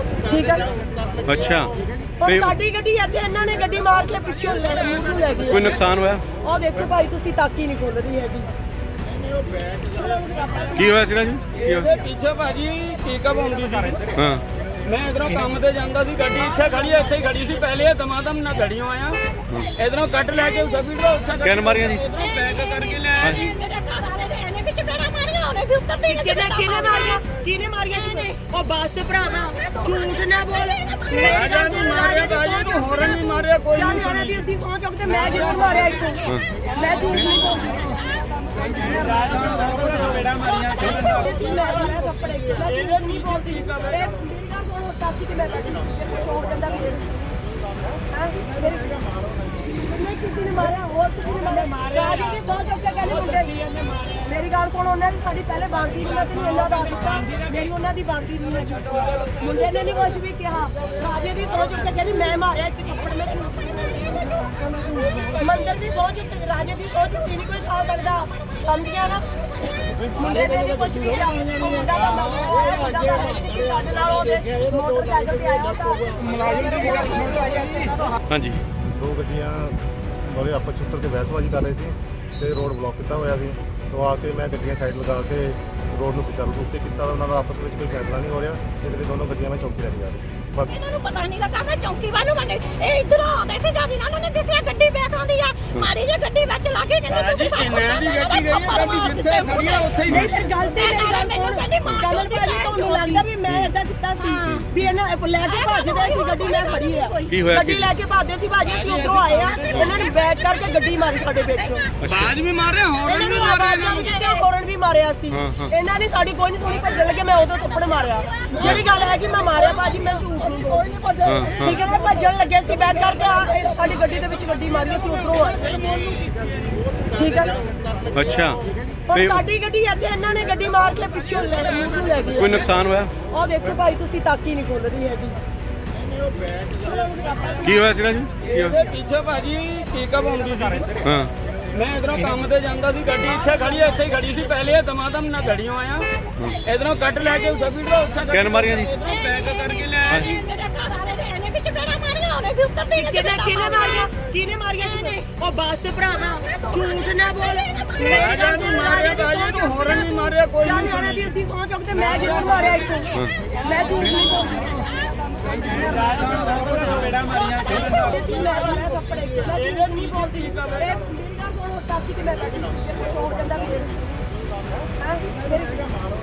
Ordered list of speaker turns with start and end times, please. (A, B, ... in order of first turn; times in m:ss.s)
0:00.2-0:00.8 A
0:01.2-0:02.5 B
0:02.2-0:05.8 A
0:05.5-0:06.3 B
0:06.3-0:08.5 A
0:09.9-0:10.8 A
0:10.7-0:11.9 B
0:11.5-0:14.1 C
0:14.2-0:14.4 B
0:14.8-0:19.2 C
0:19.7-0:23.5 C
0:21.4-0:22.0 B
0:22.1-0:27.2 D
0:26.0-0:37.9 A
0:27.9-0:28.3 D
0:29.4-0:33.4 D
0:31.2-0:34.4 C
0:35.3-0:35.7 C
0:37.8-0:38.0 D
0:38.6-0:38.9 D
0:38.6-0:47.1 A
0:38.9-0:41.3 C
0:40.5-0:41.3 D
0:42.6-0:44.1 C
0:48.1-0:49.0 A
0:49.7-1:09.3 A
1:10.1-1:18.2 A
1:18.3-1:18.6 B
1:18.9-1:30.7 E
1:30.7-1:43.2 D
1:37.1-1:40.5 C
1:40.1-1:51.8 A
1:44.2-1:44.7 D
1:45.4-1:47.4 D
1:47.3-1:47.9 B
1:48.6-1:50.1 C
1:51.6-1:51.9 D
1:52.0-1:52.3 B
1:52.0-1:54.1 C
1:53.0-2:01.0 A
1:53.9-1:54.4 D
1:55.3-1:55.7 B
1:57.7-1:58.8 D
2:01.2-2:01.8 B
2:01.6-2:05.7 A
2:04.9-2:06.8 C
2:07.1-2:07.6 A
2:08.1-2:08.6 B
2:09.1-2:15.4 A
2:09.1-2:09.4 B
2:11.9-2:12.3 C
2:12.4-2:13.1 B
2:16.7-2:17.8 A
2:17.6-2:18.8 B
2:18.4-2:21.0 C
2:21.0-2:21.3 B
2:21.7-2:26.1 C
2:26.6-2:30.4 C
2:28.3-2:28.9 B
2:29.0-2:34.1 D
2:32.9-2:44.8 A
2:34.8-2:35.3 D
2:36.5-2:39.7 D
2:38.0-2:41.3 C
2:45.7-2:54.0 A
2:45.8-2:47.9 C
2:47.7-2:48.2 D
2:49.5-2:50.9 C
2:55.0-2:55.9 A